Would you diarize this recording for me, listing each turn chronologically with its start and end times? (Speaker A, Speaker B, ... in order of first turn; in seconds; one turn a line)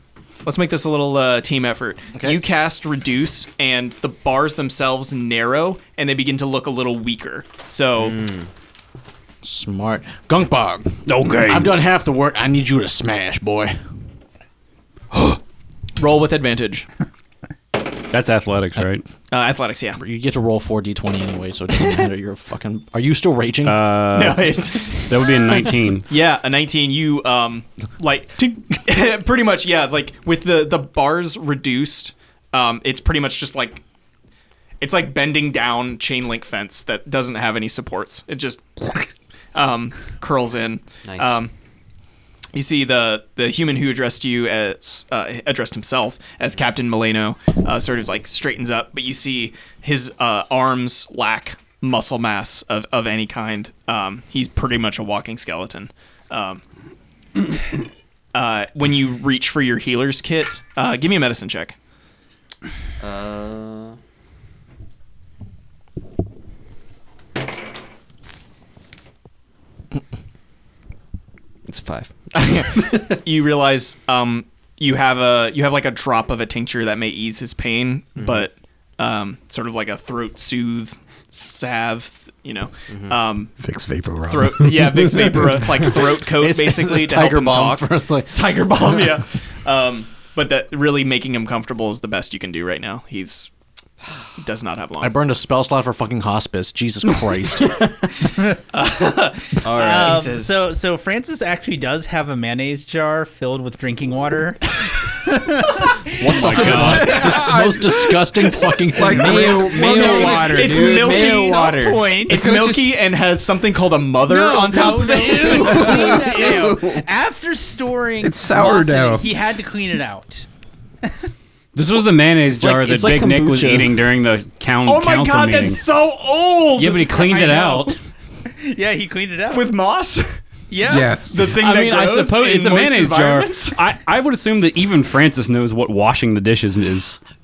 Speaker A: 0.4-8.2
Speaker B: 8.0-8.5
Speaker C: 9.4-13.8
Speaker D: 11.1-11.8
Speaker A: 16.0-16.9
Speaker D: 18.1-19.1
Speaker A: 19.3-20.0
Speaker C: 20.0-23.9
Speaker D: 23.6-26.1
Speaker A: 24.1-33.8
Speaker C: 28.4-28.7
Speaker A: 34.8-41.5
Speaker B: 41.0-41.4
Speaker A: 42.5-56.6
Speaker A: 58.3-61.7
Speaker B: 63.0-64.0
Speaker B: 71.7-73.2
Speaker A: 72.3-83.5
Speaker B: 78.2-78.5
Speaker B: 82.9-83.2
Speaker E: 83.6-85.9
Speaker A: 84.2-93.5
Speaker C: 86.2-89.1
Speaker A: 94.4-95.2
Speaker C: 95.0-97.8
Speaker A: 98.7-100.5
Speaker B: 99.6-100.3
Speaker F: 99.7-107.3
Speaker C: 106.2-109.5
Speaker D: 106.3-107.1
Speaker A: 106.6-107.2
Speaker E: 106.8-110.1
Speaker B: 109.0-112.0
Speaker F: 109.0-112.6
Speaker A: 109.6-116.5
Speaker B: 112.5-112.8
Speaker F: 114.2-120.5
Speaker E: 115.5-117.0
Speaker E: 118.2-119.3
Speaker D: 121.7-125.8
Speaker B: 122.5-124.0
Speaker A: 124.8-127.8
Speaker D: 126.8-128.0
Speaker F: 128.5-129.7
Speaker A: 129.5-130.4
Speaker F: 130.7-131.1
Speaker E: 130.8-131.4
Speaker A: 131.3-133.8
Speaker D: 131.5-137.2